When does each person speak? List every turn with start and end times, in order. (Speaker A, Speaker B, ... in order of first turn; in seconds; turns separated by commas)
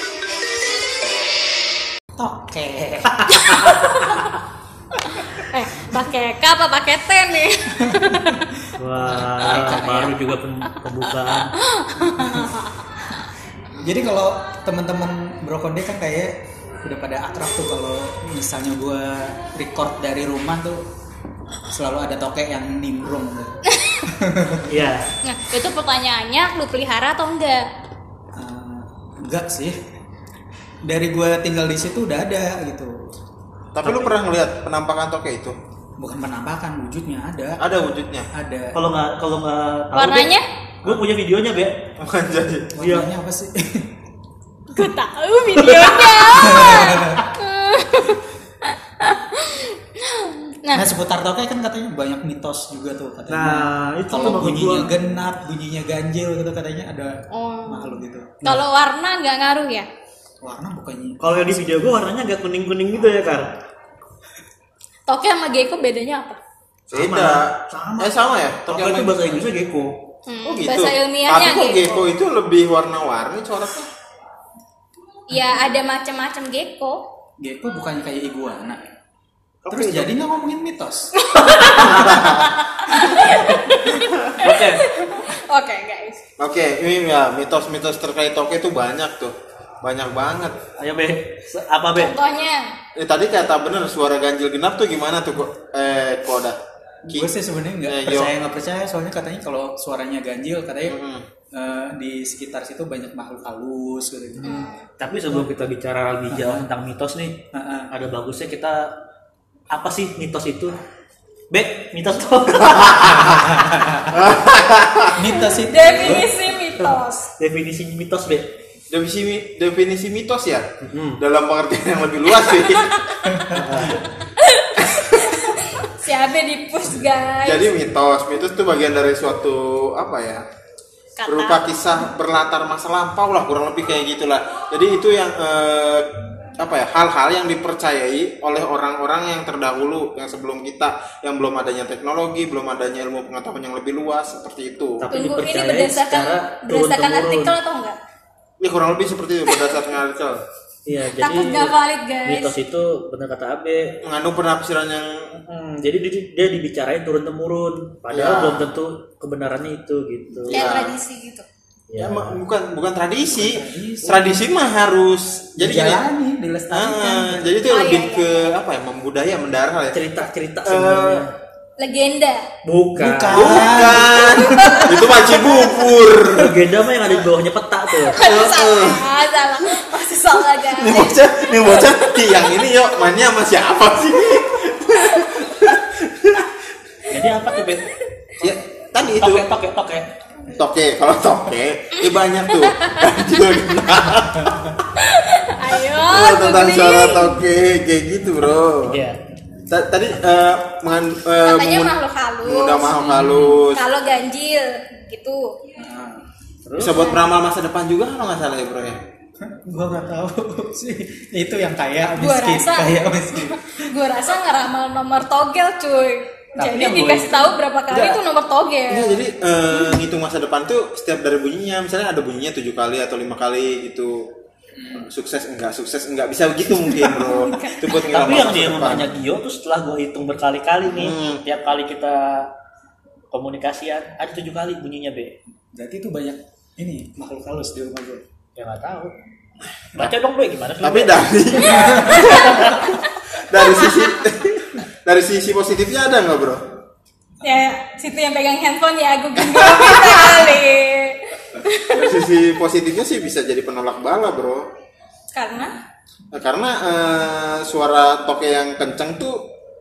Speaker A: 2.2-3.6, Speaker B: 3.1-4.2, Speaker C: 3.4-4.3, Speaker C: 5.0-8.5, Speaker A: 7.8-10.2, Speaker B: 8.8-11.5, Speaker C: 11.3-13.3, Speaker A: 12.0-12.5, Speaker A: 13.7-20.8, Speaker A: 21.7-24.7, Speaker C: 23.7-24.1, Speaker B: 24.7-25.1, Speaker C: 25.2-27.7, Speaker A: 28.3-29.8, Speaker A: 30.8-33.0, Speaker D: 33.7-35.6, Speaker A: 33.8-34.1, Speaker A: 36.0-37.6, Speaker D: 37.6-38.3, Speaker A: 38.3-38.8, Speaker B: 38.7-41.9, Speaker C: 40.0-40.5, Speaker D: 42.0-42.8, Speaker A: 42.7-44.0, Speaker B: 42.8-43.1, Speaker C: 44.7-50.9, Speaker B: 45.5-46.2, Speaker A: 46.3-47.3, Speaker A: 50.7-58.3, Speaker B: 53.3-55.0, Speaker C: 57.3-59.9, Speaker A: 60.4-61.6, Speaker B: 61.2-63.5, Speaker C: 65.1-66.4, Speaker B: 66.9-68.1, Speaker D: 66.9-69.4, Speaker B: 68.7-70.0, Speaker C: 70.2-71.9, Speaker D: 70.4-73.9, Speaker C: 75.3-77.0, Speaker A: 77.4-79.0, Speaker B: 79.6-80.2, Speaker A: 79.7-81.1, Speaker C: 81.2-86.2, Speaker B: 81.3-82.2, Speaker D: 82.0-82.4, Speaker B: 84.3-84.9, Speaker D: 86.4-90.6, Speaker B: 90.8-92.1, Speaker C: 91.9-92.7, Speaker D: 93.0-97.3, Speaker A: 97.0-101.0, Speaker D: 97.8-98.3, Speaker D: 100.9-101.2, Speaker A: 101.5-104.6, Speaker C: 104.4-104.9, Speaker B: 104.4-108.9, Speaker A: 105.2-105.5, Speaker A: 106.3-106.6, Speaker A: 107.5-107.9, Speaker B: 109.7-110.7, Speaker B: 111.5-114.1, Speaker D: 112.7-113.5, Speaker D: 114.1-115.2, Speaker A: 115.1-116.3, Speaker C: 115.6-117.3, Speaker B: 116.8-118.5, Speaker D: 118.9-123.9, Speaker B: 120.8-121.2, Speaker B: 123.5-124.0, Speaker C: 124.4-127.7, Speaker D: 124.8-125.4, Speaker D: 127.4-130.4, Speaker C: 131.2-131.7, Speaker D: 131.2-136.1, Speaker D: 136.6-145.1, Speaker B: 145.0-147.5, Speaker C: 145.1-148.0, Speaker D: 148.6-150.4, Speaker B: 150.9-154.0, Speaker C: 151.2-152.5, Speaker D: 154.0-155.3, Speaker B: 155.4-160.7, Speaker D: 158.1-158.7, Speaker D: 160.5-161.0, Speaker C: 160.5-161.5, Speaker B: 161.9-162.4, Speaker D: 162.0-166.0, Speaker A: 163.2-164.4, Speaker A: 165.6-167.6, Speaker D: 166.7-171.2, Speaker C: 167.7-168.5, Speaker B: 169.9-171.3, Speaker C: 171.8-172.5, Speaker B: 172.6-173.8, Speaker A: 173.0-175.0, Speaker D: 173.3-177.2, Speaker C: 173.8-176.0, Speaker B: 176.3-178.2, Speaker C: 178.1-182.0, Speaker D: 178.1-179.1, Speaker D: 180.7-186.6, Speaker B: 187.1-190.1, Speaker D: 188.4-189.5, Speaker D: 190.5-194.8, Speaker C: 192.6-193.4, Speaker C: 195.0-197.4, Speaker D: 195.9-199.0, Speaker B: 198.9-199.2, Speaker D: 199.7-203.8, Speaker C: 201.4-203.2, Speaker A: 203.2-203.5, Speaker B: 203.2-203.5, Speaker C: 203.7-205.6, Speaker A: 205.8-206.2, Speaker B: 206.7-207.1, Speaker D: 206.8-209.0, Speaker C: 206.9-207.3, Speaker A: 209.4-213.9, Speaker C: 212.2-219.2, Speaker B: 216.6-217.6, Speaker D: 217.9-218.2, Speaker D: 218.9-224.3, Speaker A: 224.8-225.1, Speaker D: 224.9-229.1, Speaker C: 227.2-227.9, Speaker B: 228.1-232.5, Speaker D: 230.9-231.4, Speaker B: 233.3-235.3, Speaker A: 235.7-238.2, Speaker B: 238.6-239.1, Speaker B: 239.9-242.9, Speaker D: 240.8-246.7, Speaker C: 247.4-252.2, Speaker D: 249.4-250.5, Speaker D: 251.9-254.7, Speaker C: 255.3-255.8, Speaker D: 256.3-259.5